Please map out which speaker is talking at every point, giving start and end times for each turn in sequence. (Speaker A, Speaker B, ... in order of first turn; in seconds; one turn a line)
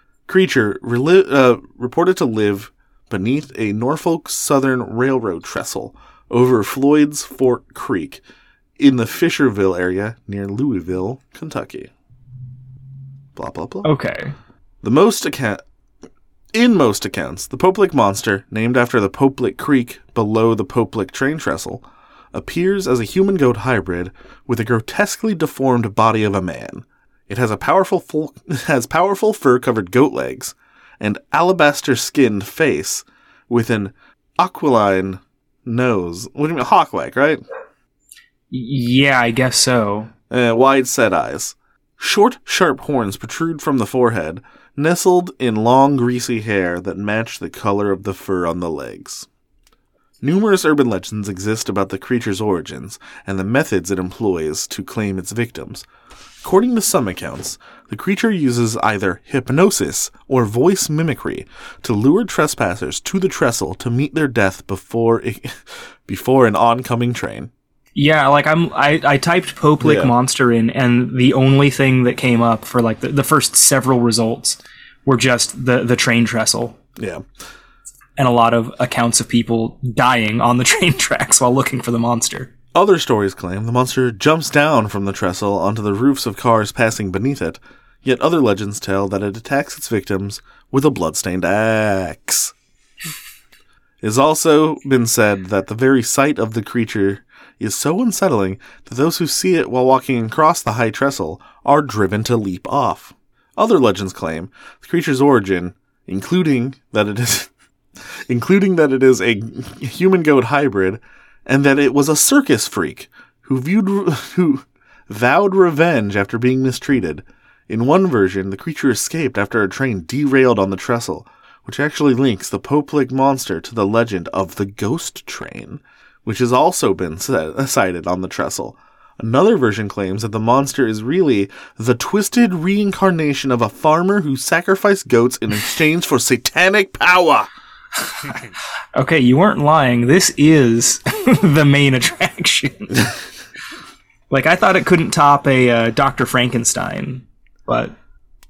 Speaker A: 0.3-8.2
Speaker A: 8.8-11.9
Speaker A: 13.3-13.9
Speaker B: 13.8-14.3
Speaker A: 14.8-15.6
Speaker A: 16.5-37.4
Speaker B: 38.5-40.1
Speaker A: 40.3-49.3
Speaker A: 50.2-55.8
Speaker A: 56.4-67.5
Speaker B: 67.9-76.8
Speaker A: 69.8-70.1
Speaker A: 77.0-77.2
Speaker B: 78.2-82.5
Speaker A: 82.7-92.5
Speaker A: 94.0-107.5
Speaker A: 108.3-137.5
Speaker B: 138.9-143.1
Speaker B: 144.3-147.9